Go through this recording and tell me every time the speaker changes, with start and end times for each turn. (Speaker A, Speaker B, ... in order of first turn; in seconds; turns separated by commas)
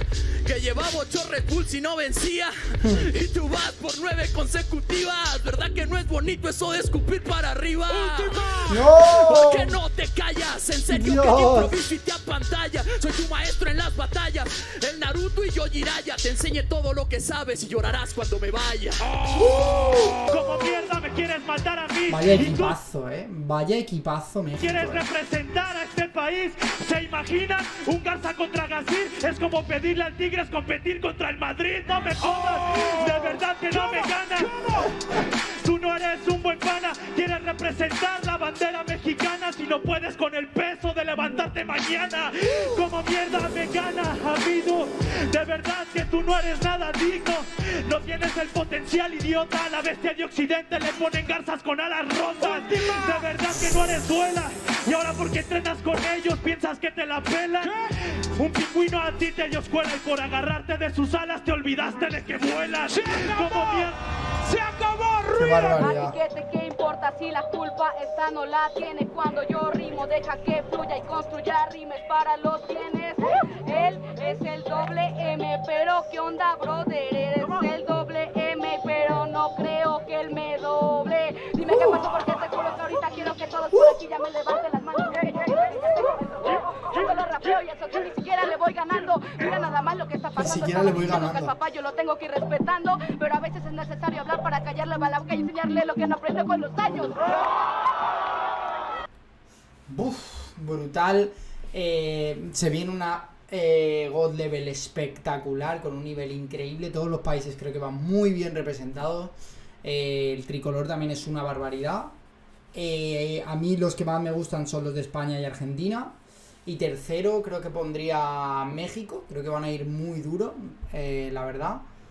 Speaker A: 0.5-19.1, Speaker B: 8.7-9.8, Speaker B: 10.9-11.7, Speaker C: 20.3-22.8, Speaker B: 22.1-25.1, Speaker C: 24.6-34.6, Speaker C: 35.6-64.0, Speaker B: 65.3-66.2, Speaker D: 65.5-97.3, Speaker B: 90.4-91.5, Speaker B: 99.9-112.1, Speaker B: 112.7-121.8